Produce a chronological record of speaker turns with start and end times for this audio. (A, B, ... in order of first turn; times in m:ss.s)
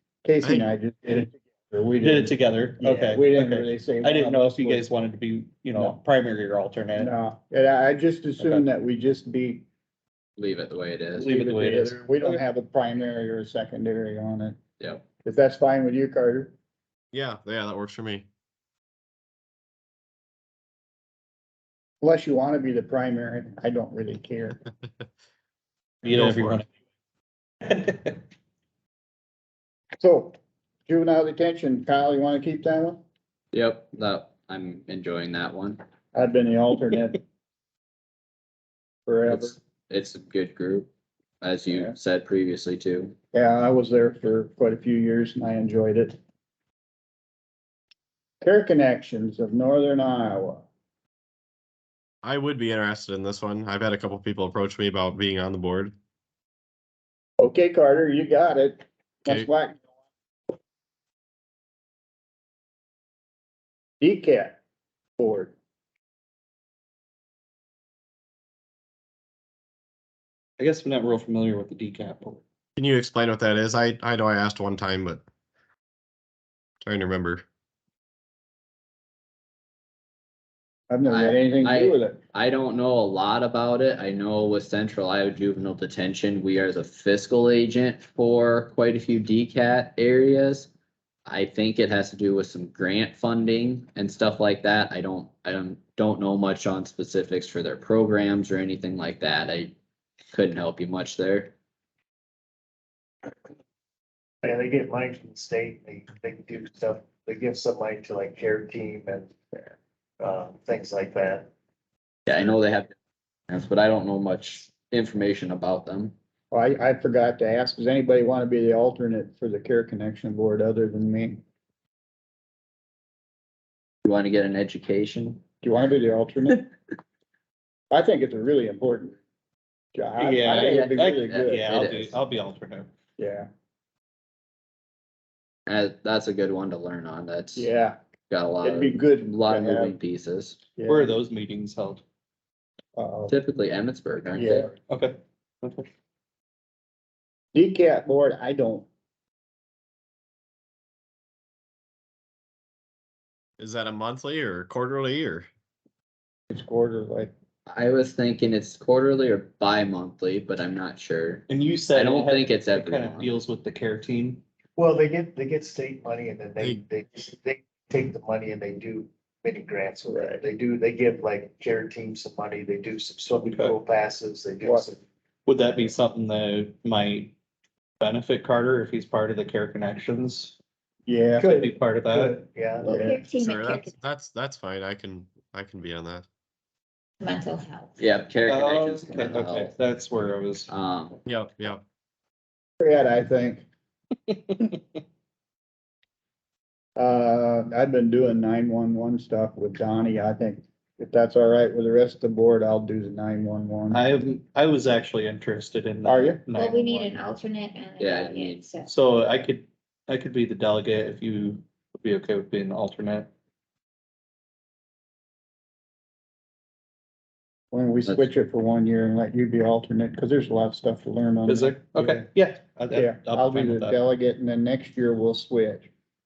0:00.2-0:04.8 A
0:00.4-0:00.7 B
0:02.0-0:07.1 C
0:07.0-0:09.6 A
0:08.4-0:08.6 C
0:10.4-0:11.3 D
0:11.2-0:12.4 C
0:11.3-0:14.6 A
0:15.2-0:16.5 A
0:17.1-0:18.3 B
0:22.0-0:24.6 A
0:26.0-0:26.7 C
0:26.1-0:26.6 B
0:27.6-0:28.2 C
0:30.0-0:30.4 A
0:30.9-0:33.0 A
0:33.5-0:35.8 D
0:36.1-0:37.2 A
0:39.1-0:39.6 A
0:39.3-0:40.9 D
0:41.4-0:43.2 D
0:41.7-0:42.0 A
0:43.3-0:46.2 A
0:48.4-0:50.6 A
0:52.2-0:55.9 B
0:57.4-0:59.8 A
1:04.0-1:04.6 A
1:05.2-1:05.5 A
1:10.6-1:12.4 C
1:12.8-1:15.2 B
1:16.8-1:17.4 B
1:20.9-1:22.2 A
1:21.1-1:30.7 D
1:31.3-1:39.7 D
1:40.3-1:41.5 D
1:44.4-1:49.7 E
1:50.2-1:51.5 E
1:52.3-1:52.9 D
1:53.5-1:56.1 D
1:56.5-2:01.4 A
2:04.0-2:05.4 D
2:05.6-2:06.7 A
2:07.9-2:09.2 A
2:09.9-2:11.6 A
2:10.2-2:12.9 C
2:10.7-2:12.2 D
2:13.2-2:13.5 A
2:15.7-2:17.7 D
2:17.6-2:18.0 A
2:18.3-2:20.7 D
2:18.6-2:20.0 A
2:20.8-2:21.1 A
2:20.9-2:22.0 C
2:23.0-2:23.4 A
2:23.3-2:24.7 D
2:24.3-2:24.7 A
2:24.9-2:25.9 C
2:27.5-2:28.9 A
2:33.6-2:35.5 B
2:36.5-2:37.3 A
2:37.7-2:43.3 D
2:41.5-2:44.4 C
2:44.8-2:55.0 E
2:50.1-2:50.4 A
2:53.5-2:53.8 C
2:55.5-2:57.3 C
2:58.0-3:00.6 C
3:01.1-3:01.5 A
3:01.4-3:03.2 E
3:01.5-3:02.4 C
3:02.8-3:03.2 A
3:02.9-3:04.0 F
3:03.4-3:06.3 B
3:07.2-3:08.0 F
3:08.0-3:09.7 D
3:08.5-3:10.7 C
3:10.7-3:11.2 D
3:11.3-3:11.8 B
3:12.8-3:13.6 A
3:14.3-3:15.0 C
3:17.0-3:24.0 A
3:23.9-3:27.2 C
3:26.0-3:26.4 A
3:26.5-3:28.9 F
3:28.0-3:28.7 D
3:28.9-3:33.3 C
3:37.7-3:42.2 A
3:41.5-3:44.0 C
3:42.9-3:45.9 A